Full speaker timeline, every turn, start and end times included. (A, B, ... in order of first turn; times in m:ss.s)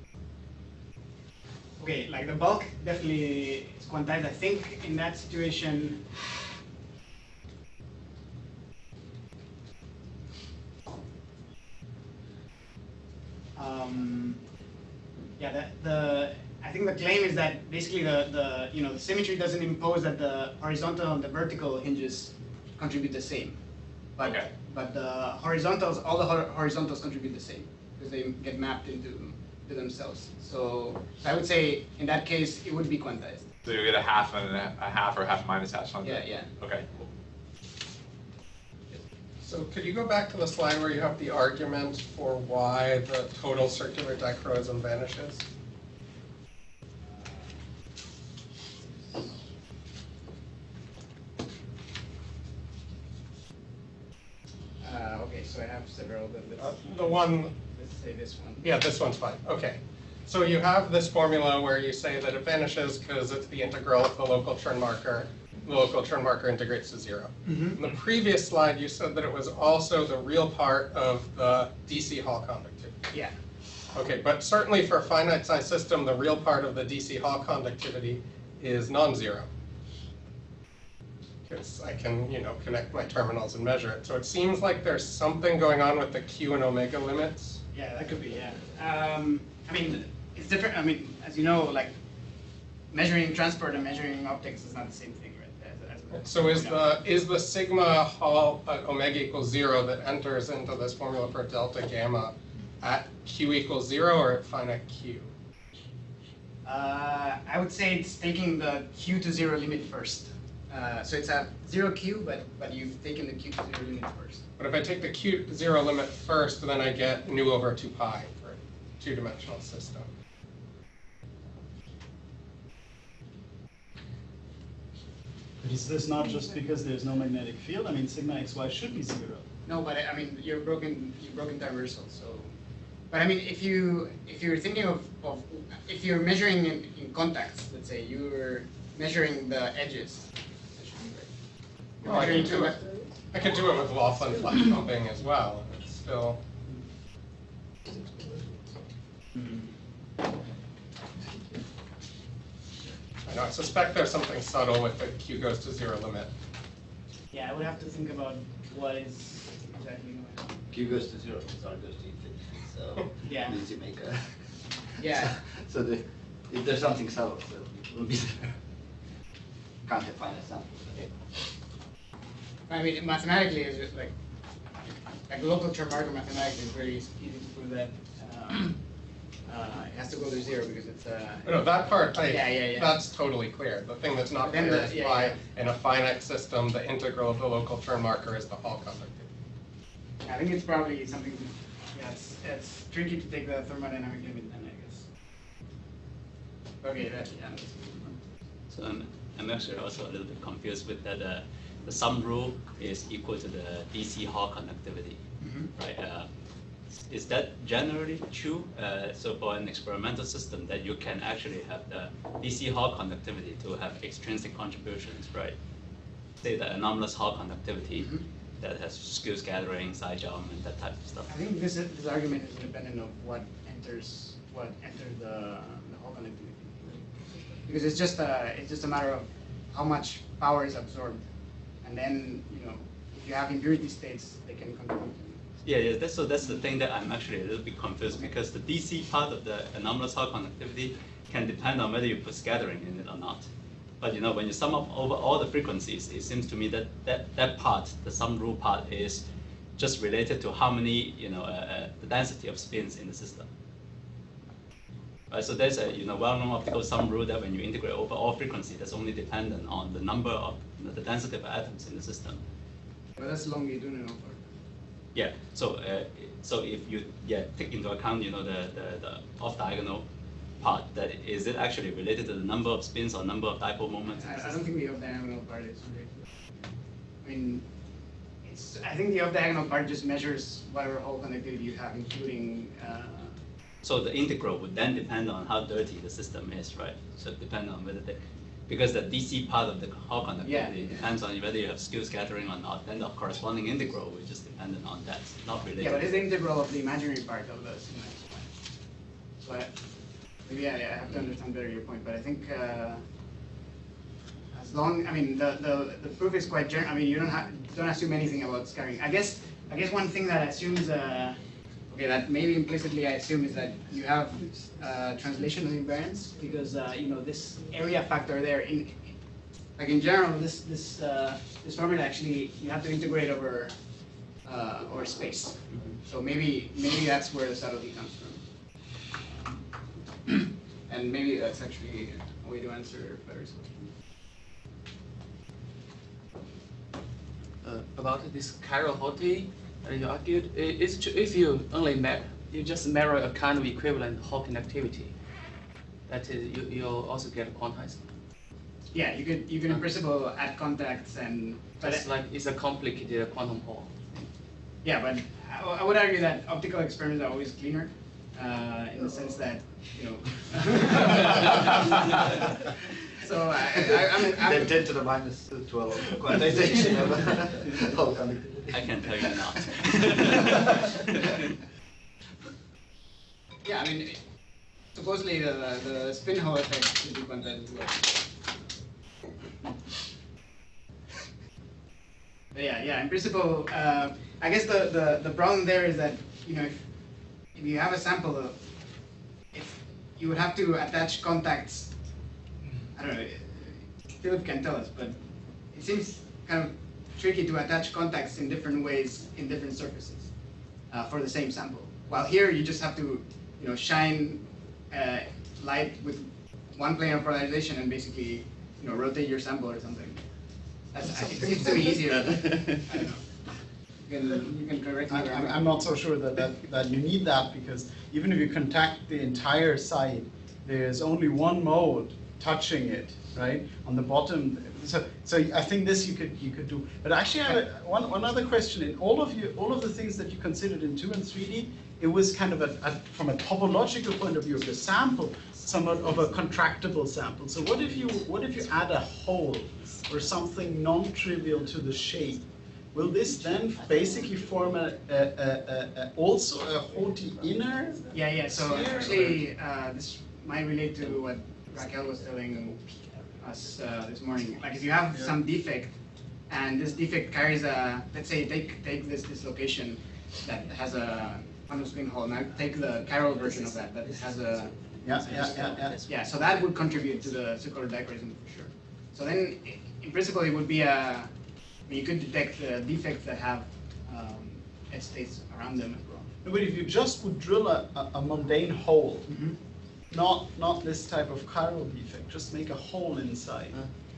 0:01.8-0:06.0 A
0:13.6-0:14.4 A
0:15.4-0:23.6 A
0:24.2-0:33.5 A
0:24.2-0:24.5 B
0:33.6-0:36.9 B
0:36.0-0:36.5 A
0:39.4-0:45.4 C
0:47.1-0:47.5 A
0:49.1-0:49.3 A
0:54.8-0:58.6 A
0:56.6-0:57.5 C
0:58.6-1:13.0 C
1:07.4-1:07.8 A
1:13.9-1:19.5 C
1:21.5-1:27.6 C
1:27.7-1:31.9 A
1:32.9-1:36.8 A
1:36.2-1:45.3 C
1:46.6-1:54.4 A
1:54.6-2:00.1 C
2:05.6-2:09.4 D
2:09.6-2:12.5 A
2:13.1-2:21.3 A
2:22.0-2:22.8 A
2:22.0-2:26.4 C
2:29.3-2:29.7 A
2:33.2-2:36.3 C
2:37.3-2:40.6 A
2:40.7-2:44.4 E
2:43.2-2:43.6 A
2:45.0-2:45.4 A
2:45.0-2:48.6 E
2:49.9-2:51.1 E
2:52.7-2:54.1 A
2:55.3-2:58.7 A
2:59.5-3:01.6 A
3:01.4-3:09.3 C
3:02.2-3:02.9 A
3:04.4-3:05.4 A
3:10.2-3:15.1 A
3:16.8-3:18.2 A
3:18.7-3:25.2 F
3:25.4-3:25.7 A
3:25.7-3:26.3 F
3:27.1-3:35.6 F
3:36.4-3:41.3 F
3:41.3-3:47.0 A
3:47.6-3:51.2 A
3:51.8-3:55.4 A
3:55.6-4:03.5 F
4:04.0-4:09.2 F
4:09.8-4:13.5 F
4:15.3-4:22.4 F
4:23.2-4:24.4 A
4:25.1-4:30.0 F
4:30.6-4:34.6 F
4:34.2-4:36.3 A
4:37.2-4:37.6 A
4:38.4-4:43.4 A
4:43.8-4:56.2 F
4:50.4-4:51.0 A
4:55.8-4:58.5 A
4:59.4-4:59.7 A
5:00.4-5:03.0 A
5:04.5-5:11.4 A
5:11.9-5:19.1 A
5:19.8-5:23.7 A
5:24.4-5:28.4 A
5:29.3-5:29.5 A
5:30.9-5:33.9 A
5:37.6-5:45.1 G
5:46.1-5:48.0 G
5:48.9-5:52.0 A
5:51.8-5:53.9 G
5:54.8-6:04.7 A
6:03.7-6:10.9 E
6:08.7-6:11.4 F
6:13.6-6:14.2 A
6:14.9-6:18.2 A
6:22.5-6:26.8 A
6:27.5-6:28.6 A
6:29.5-6:31.9 A
6:32.9-6:35.2 A
6:35.7-6:40.3 A
6:40.9-6:50.2 A
6:50.9-6:53.2 A
6:54.0-6:55.7 A
6:55.1-7:29.4 D
7:28.1-7:32.8 A
7:33.4-7:36.0 A
7:36.5-7:51.3 A
7:45.0-7:45.9 D
7:51.9-7:56.3 A
7:56.4-7:59.3 D
7:59.3-7:59.6 A
8:00.1-8:03.9 D